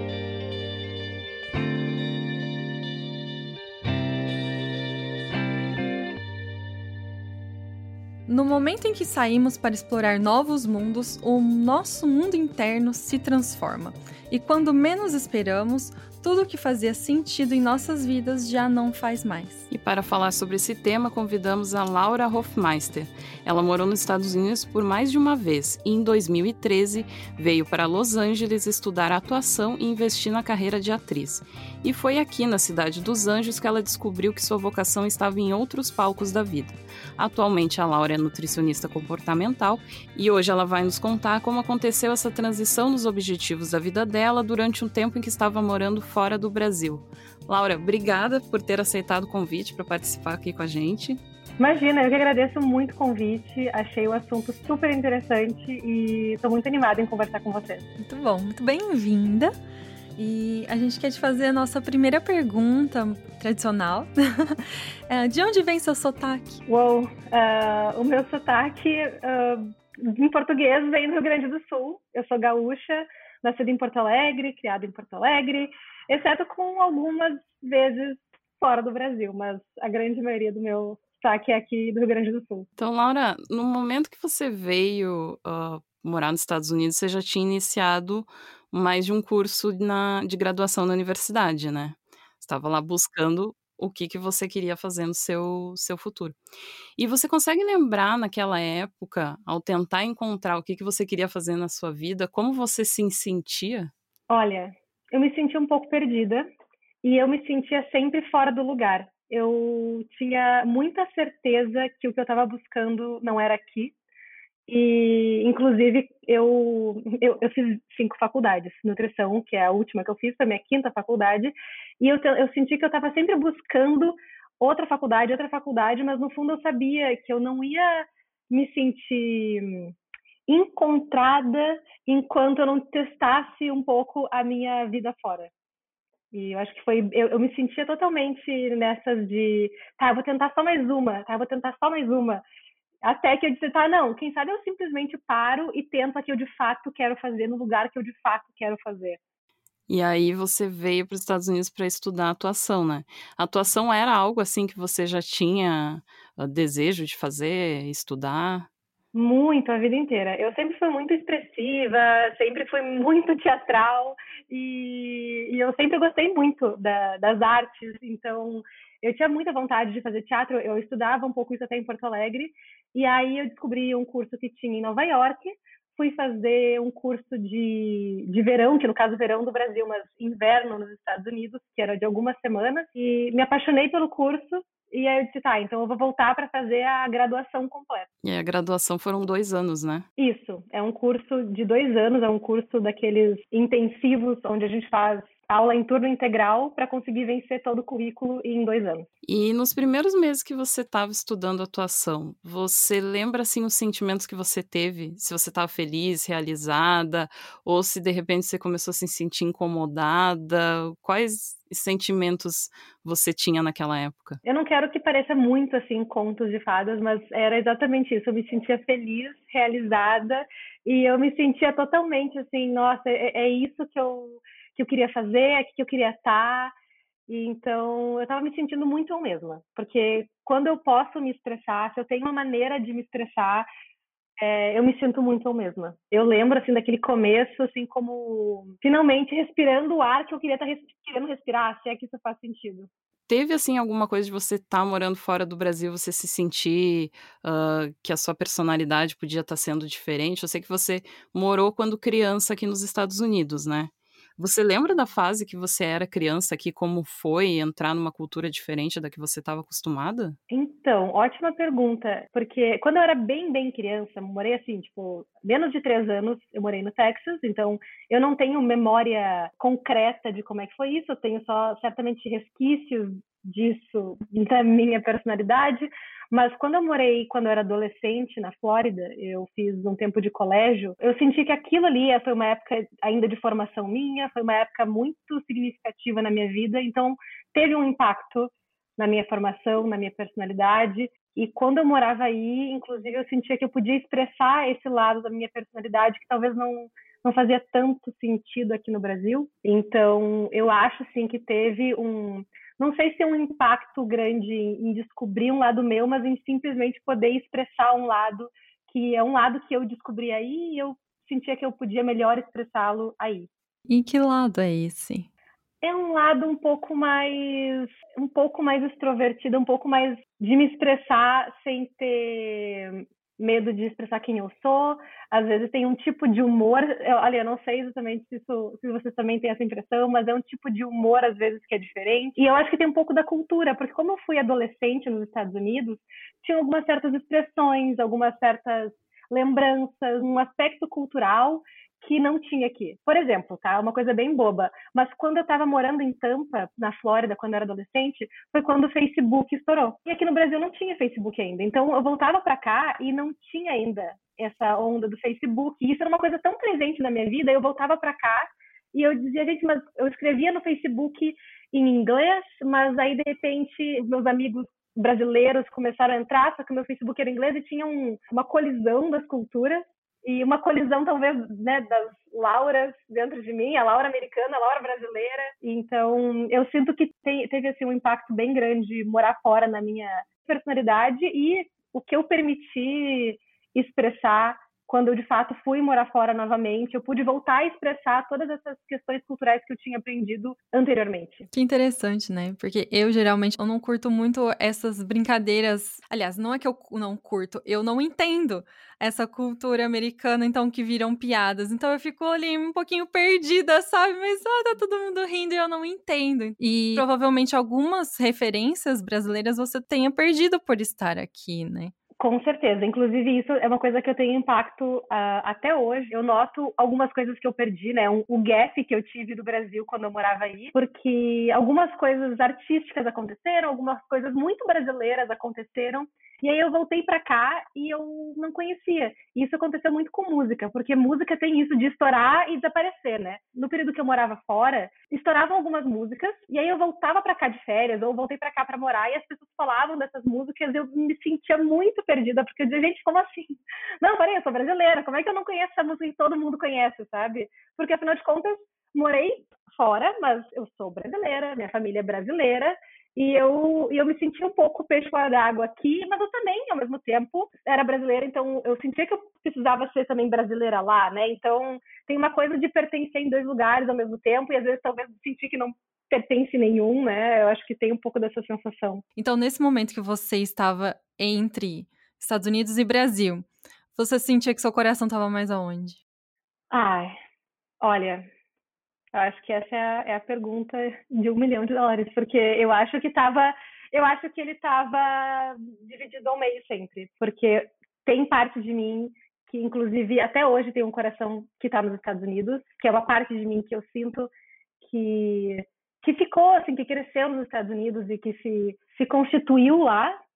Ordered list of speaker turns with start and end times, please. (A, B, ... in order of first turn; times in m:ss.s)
0:08.3-0:19.7 A
0:19.7-0:51.2 B
0:51.6-0:57.8 C
0:58.0-0:59.5 A
1:00.2-1:06.6 A
1:06.7-1:22.7 C
1:22.8-1:36.4 B
1:37.0-1:43.9 B
1:44.3-1:46.5 C
1:47.0-1:53.9 C
1:54.7-2:09.9 C
2:10.5-2:15.5 C
2:16.3-2:22.4 C
2:23.0-2:29.2 C
2:29.9-2:38.7 B
2:39.1-3:08.1 C
3:08.2-3:10.1 B
3:10.2-3:19.1 C
3:19.2-3:34.4 B
3:34.4-3:46.7 C
3:47.3-3:53.7 C
3:54.4-4:02.9 C
4:03.3-4:20.4 B
4:20.5-5:13.5 C
5:13.9-5:15.3 A
5:15.8-6:31.5 C
6:31.5-6:51.9 A
6:52.2-7:49.0 C
7:49.2-7:56.0 A
7:56.7-7:57.1 C
7:57.8-7:58.3 C
7:59.1-8:20.2 C